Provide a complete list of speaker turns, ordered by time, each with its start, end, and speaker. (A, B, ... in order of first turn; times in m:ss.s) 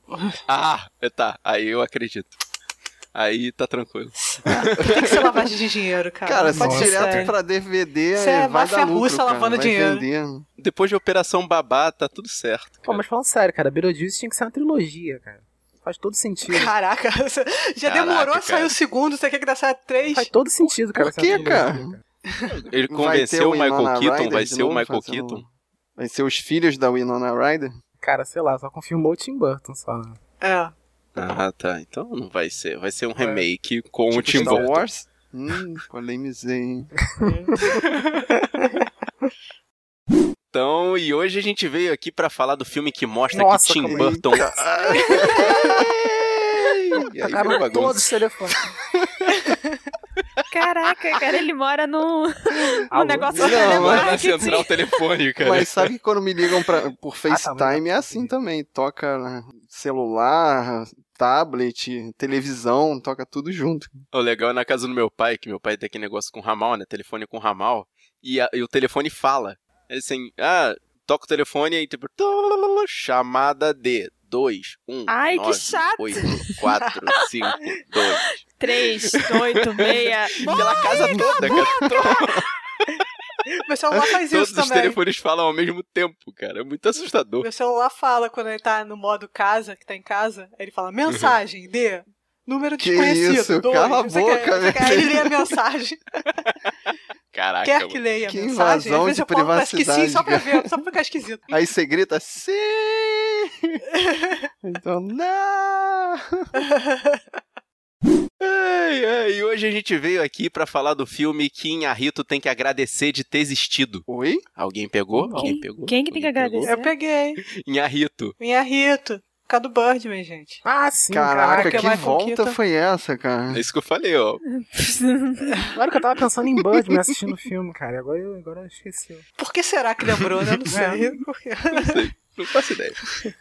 0:00.5-0:02.4 A
0:03.1-0:05.1 A
0:04.2-0:07.3 B
0:04.5-0:05.0 C
0:06.2-0:10.4 C
0:06.5-0:07.3 D
0:08.1-0:10.0 B
0:10.6-0:13.0 A
0:12.8-0:16.7 D
0:16.5-0:20.3 B
0:17.8-0:18.8 A
0:20.1-0:22.0 D
0:20.9-0:21.9 C
0:22.4-0:25.4 A
0:22.9-0:27.7 C
0:28.0-0:30.2 D
0:30.4-0:30.7 B
0:31.2-0:34.8 A
0:34.1-0:36.9 C
0:37.2-0:38.2 B
0:40.5-0:48.1 A
0:43.3-0:44.4 D
0:43.8-0:45.6 C
0:47.2-0:48.7 D
0:48.9-0:49.2 C
0:50.5-0:54.7 E
0:52.9-0:53.6 D
0:53.4-0:54.1 C
0:53.4-0:55.9 A
0:55.4-1:04.0 C
0:57.3-0:58.3 D
1:04.1-1:18.4 A
1:15.1-1:16.4 E
1:18.6-1:20.4 E
1:19.1-1:19.3 A
1:19.9-1:22.5 A
1:23.6-1:25.0 B
1:24.3-1:27.5 A
1:27.4-1:36.2 B
1:31.0-1:31.4 A
1:32.8-1:35.3 C
1:37.3-1:38.0 A
1:37.6-1:41.5 B
1:38.2-1:40.7 C
1:41.5-1:43.8 C
1:44.1-1:44.4 B
1:44.6-1:46.5 C
1:46.6-1:47.2 B
1:48.4-1:54.0 A
1:54.1-1:54.4 C
1:54.6-1:56.8 A
1:55.1-1:55.5 D
1:55.4-1:56.9 E
1:56.6-1:57.4 B
1:57.4-1:58.4 A
1:58.4-2:00.6 B
2:00.6-2:02.0 D
2:01.1-2:03.6 C
2:01.5-2:02.6 B
2:03.5-2:04.4 A
2:04.5-2:05.6 E
2:05.7-2:09.2 D
2:09.4-2:12.0 B
2:10.7-2:11.2 D
2:11.7-2:13.0 A